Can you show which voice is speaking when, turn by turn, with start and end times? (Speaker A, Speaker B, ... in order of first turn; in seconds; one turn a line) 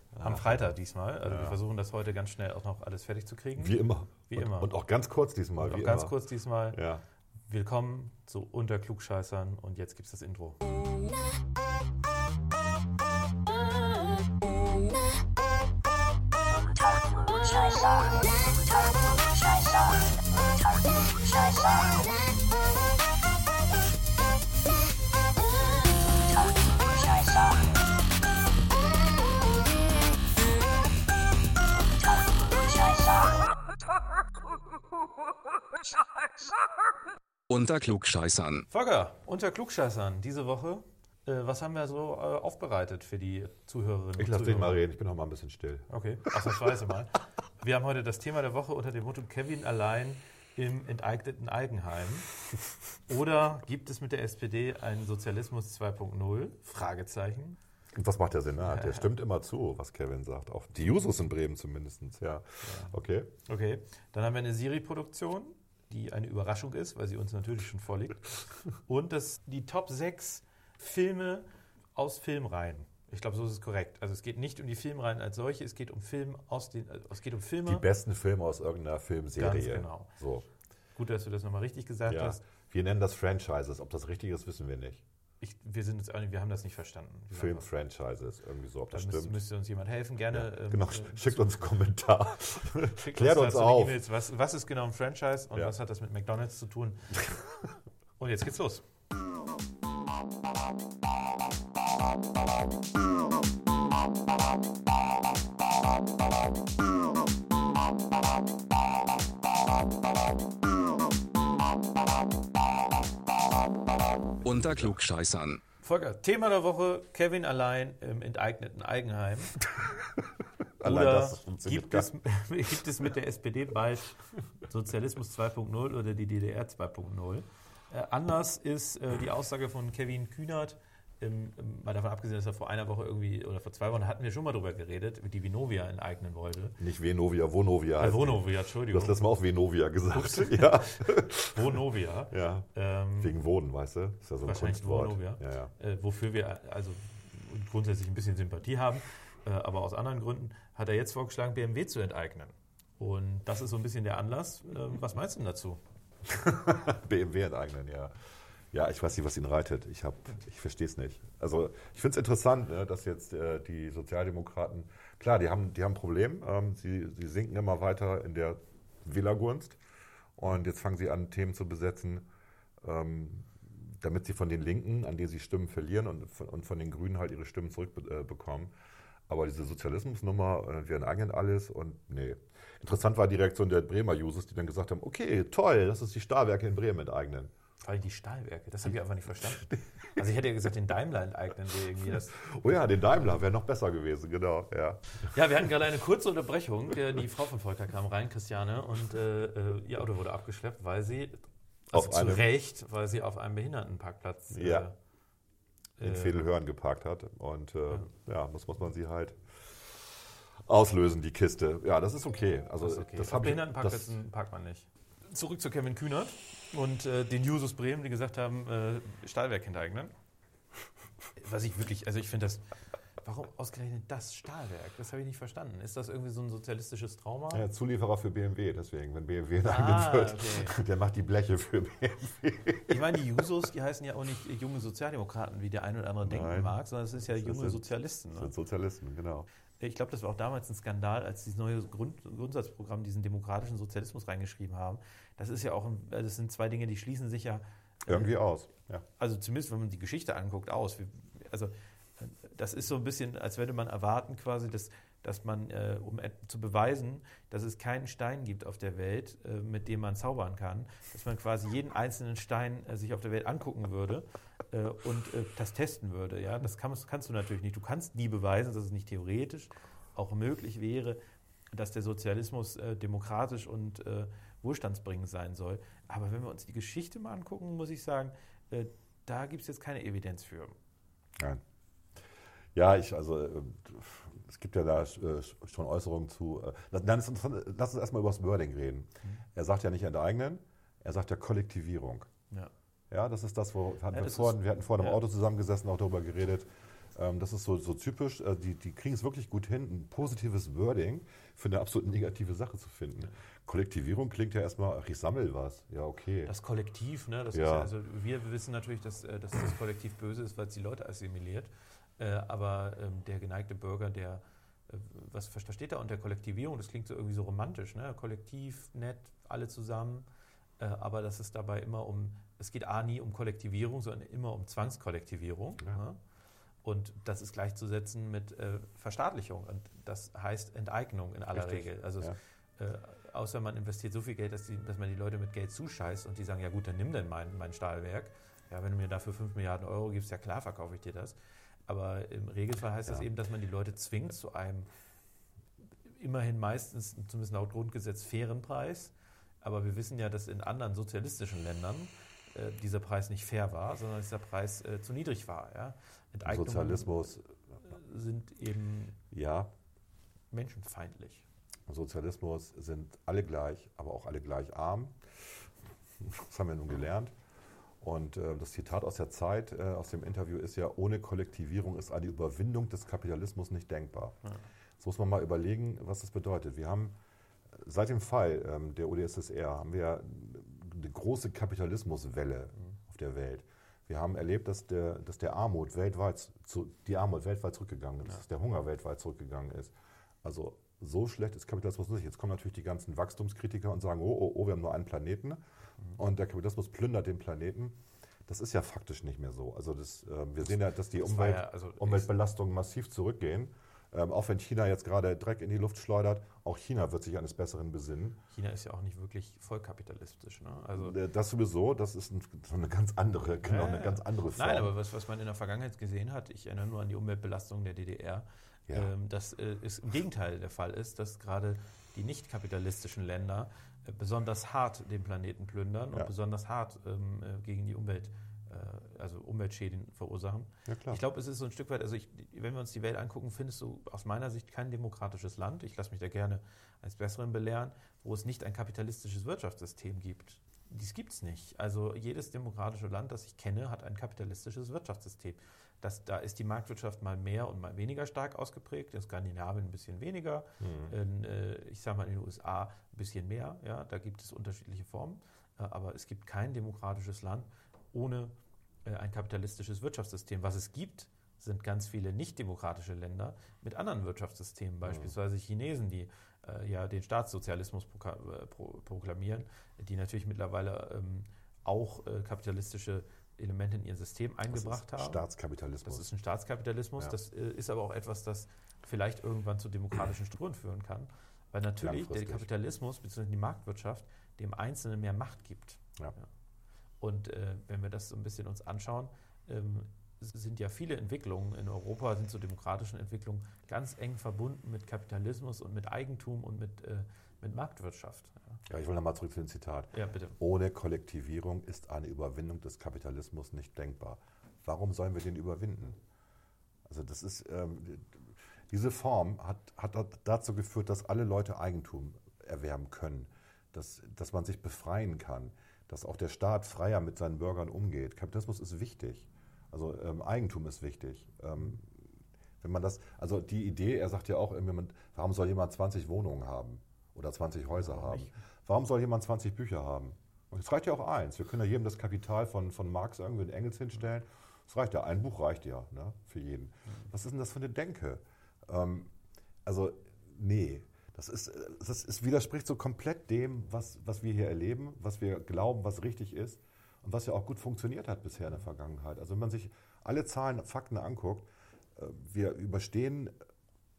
Speaker A: 0.1-0.7
Speaker B: 0.2-4.7
Speaker A: 1.2-1.6
Speaker A: 3.6-6.2
Speaker B: 5.6-6.8
Speaker A: 6.7-7.0
Speaker B: 7.5-10.8
Speaker C: 37.5-38.6
Speaker B: 38.7-44.8
Speaker A: 44.2-46.4
Speaker B: 45.9-52.3
Speaker B: 53.1-57.6
Speaker A: 57.9-63.3
Speaker B: 58.6-59.0
Speaker B: 62.6-77.8
Speaker A: 77.7-80.5
Speaker B: 79.4-80.1
Speaker B: 81.0-82.4
Speaker A: 82.1-85.0
Speaker B: 85.4-87.7
Speaker A: 87.3-89.4
Speaker B: 88.9-91.5
Speaker A: 90.3-94.0
Speaker B: 92.9-97.2
Speaker A: 97.2-97.7
Speaker B: 98.2-98.8
Speaker C: 114.4-115.6
Speaker B: 115.8-119.5
Speaker A: 120.8-122.1
Speaker B: 120.8-136.8
Speaker A: 136.8-141.8
Speaker B: 138.0-139.2
Speaker B: 140.2-143.3
Speaker A: 142.3-145.7
Speaker B: 144.4-155.8
Speaker A: 156.2-158.1
Speaker A: 158.7-169.8
Speaker A: 170.4-172.3
Speaker A: 172.8-178.7
Speaker A: 179.3-187.5
Speaker B: 187.8-192.4
Speaker A: 189.4-190.2
Speaker A: 192.3-195.2
Speaker B: 195.2-204.9
Speaker A: 201.9-202.5
Speaker A: 204.5-204.9
Speaker B: 206.0-206.4
Speaker A: 206.0-214.2
Speaker B: 212.8-220.1
Speaker B: 221.4-222.7
Speaker B: 223.2-227.6
Speaker A: 227.5-233.2
Speaker B: 229.6-230.7
Speaker B: 232.9-238.5
Speaker A: 236.2-239.5
Speaker B: 239.8-248.3
Speaker A: 248.1-249.0
Speaker B: 249.2-271.2
Speaker B: 271.7-280.7
Speaker A: 282.7-292.3
Speaker A: 293.1-306.5
Speaker B: 294.1-295.2
Speaker B: 306.4-320.3
Speaker A: 307.5-307.9
Speaker B: 320.8-326.2
Speaker B: 326.8-341.4
Speaker A: 331.5-332.4
Speaker B: 341.9-344.9
Speaker B: 346.2-357.3
Speaker A: 356.4-357.4
Speaker B: 357.8-359.2
Speaker A: 359.3-359.7
Speaker B: 360.5-361.4
Speaker A: 361.9-365.7
Speaker A: 366.2-367.3
Speaker A: 368.0-374.4
Speaker A: 375.0-377.1
Speaker A: 377.7-395.6
Speaker A: 396.2-408.4
Speaker B: 401.2-402.3
Speaker B: 408.5-411.1
Speaker A: 410.9-414.9
Speaker B: 413.6-458.5
Speaker A: 430.9-431.2
Speaker A: 450.8-451.1
Speaker B: 459.0-475.4
Speaker A: 465.0-465.3
Speaker A: 474.7-476.3
Speaker B: 476.1-486.4
Speaker A: 482.0-482.7
Speaker B: 487.2-498.8
Speaker A: 498.9-506.2
Speaker B: 500.1-500.6
Speaker A: 507.1-539.3
Speaker B: 528.1-528.5
Speaker A: 539.8-553.5